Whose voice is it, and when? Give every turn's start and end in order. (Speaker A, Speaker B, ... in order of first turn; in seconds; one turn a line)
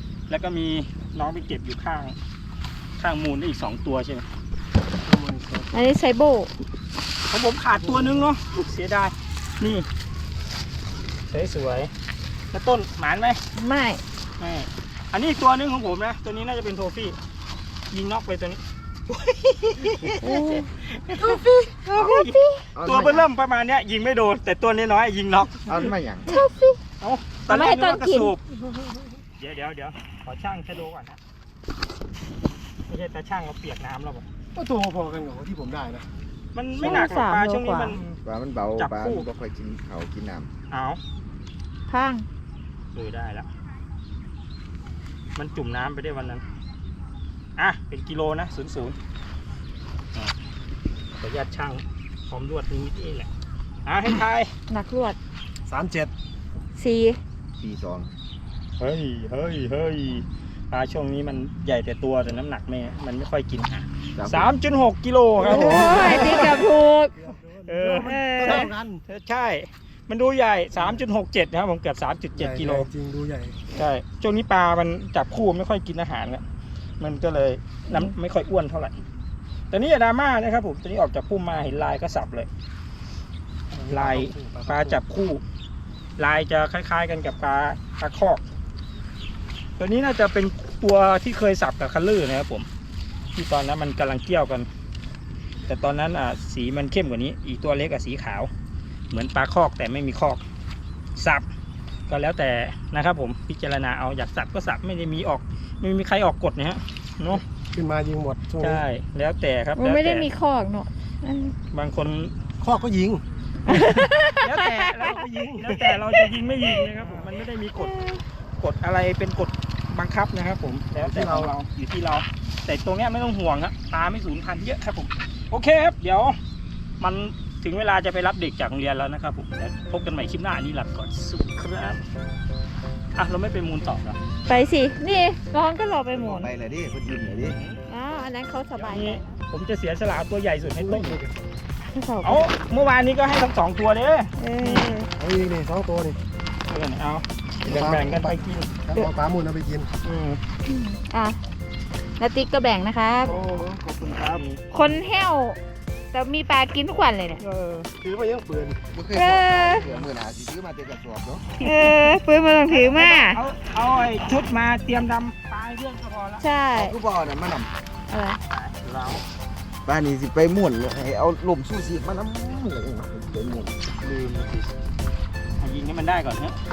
Speaker A: 0.3-2.1
Speaker A: 3.0-4.3
Speaker B: 5.0-5.8
Speaker C: 5.7-6.5
Speaker A: 7.3-9.8
Speaker B: 7.8-8.3
Speaker A: 11.3-11.9
Speaker A: 12.5-13.4
Speaker C: 13.6-14.0
Speaker A: 14.4-17.2
Speaker A: 17.9-25.7
Speaker C: 20.0-20.7
Speaker C: 21.9-22.6
Speaker D: 22.7-23.3
Speaker D: 25.7-26.4
Speaker C: 26.2-26.8
Speaker A: 27.0-28.4
Speaker C: 27.5-28.3
Speaker A: 29.4-31.2
Speaker A: 32.9-34.2
Speaker B: 34.5-36.1
Speaker A: 36.5-38.2
Speaker C: 36.8-38.0
Speaker D: 38.2-40.5
Speaker A: 38.8-39.2
Speaker A: 40.7-41.0
Speaker C: 41.9-42.2
Speaker A: 42.9-43.5
Speaker A: 45.3-46.4
Speaker A: 47.6-49.0
Speaker A: 51.2-53.3
Speaker A: 53.9-54.5
Speaker C: 54.7-55.2
Speaker B: 55.7-56.1
Speaker C: 56.7-57.2
Speaker D: 57.6-58.1
Speaker A: 58.8-66.6
Speaker D: 64.2-64.5
Speaker C: 65.4-67.1
Speaker B: 65.4-69.0
Speaker A: 67.6-72.9
Speaker C: 67.9-68.7
Speaker B: 72.3-73.6
Speaker A: 73.7-76.4
Speaker A: 77.0-79.0
Speaker A: 79.7-82.5
Speaker B: 83.7-85.0
Speaker A: 83.9-85.4
Speaker A: 86.2-88.4
Speaker A: 89.8-92.7
Speaker A: 93.3-94.7
Speaker A: 95.7-98.5
Speaker A: 99.1-100.4
Speaker A: 101.2-101.5
Speaker A: 102.1-107.4
Speaker B: 107.7-108.8
Speaker A: 108.6-110.3
Speaker C: 109.8-111.5
Speaker A: 111.7-112.3
Speaker B: 112.6-114.0
Speaker C: 113.7-115.1
Speaker A: 113.7-126.4
Speaker B: 115.0-116.2
Speaker B: 117.0-117.2
Speaker B: 121.0-121.5
Speaker A: 127.0-132.0
Speaker A: 133.1-134.2
Speaker C: 134.5-136.5
Speaker D: 136.1-137.6
Speaker A: 137.5-137.8
Speaker C: 137.9-139.3
Speaker A: 138.7-141.2
Speaker B: 140.8-141.4
Speaker C: 141.9-142.5
Speaker A: 142.2-145.0
Speaker C: 144.4-145.1
Speaker B: 145.2-146.2
Speaker A: 146.7-148.7
Speaker B: 147.7-148.3
Speaker B: 148.8-149.9
Speaker A: 150.0-150.4
Speaker C: 150.7-151.4
Speaker C: 152.2-153.4
Speaker A: 153.2-154.7
Speaker B: 153.2-154.4
Speaker C: 154.7-155.6
Speaker C: 156.1-157.4
Speaker A: 157.4-157.9
Speaker B: 158.0-158.8
Speaker D: 158.9-161.7
Speaker C: 159.1-159.9
Speaker A: 161.6-161.9
Speaker C: 161.6-163.4
Speaker A: 162.6-166.4
Speaker C: 166.4-167.0
Speaker D: 166.7-167.7
Speaker C: 168.1-168.4
Speaker A: 168.5-169.2
Speaker D: 169.8-173.8
Speaker A: 174.0-174.7
Speaker A: 175.6-176.6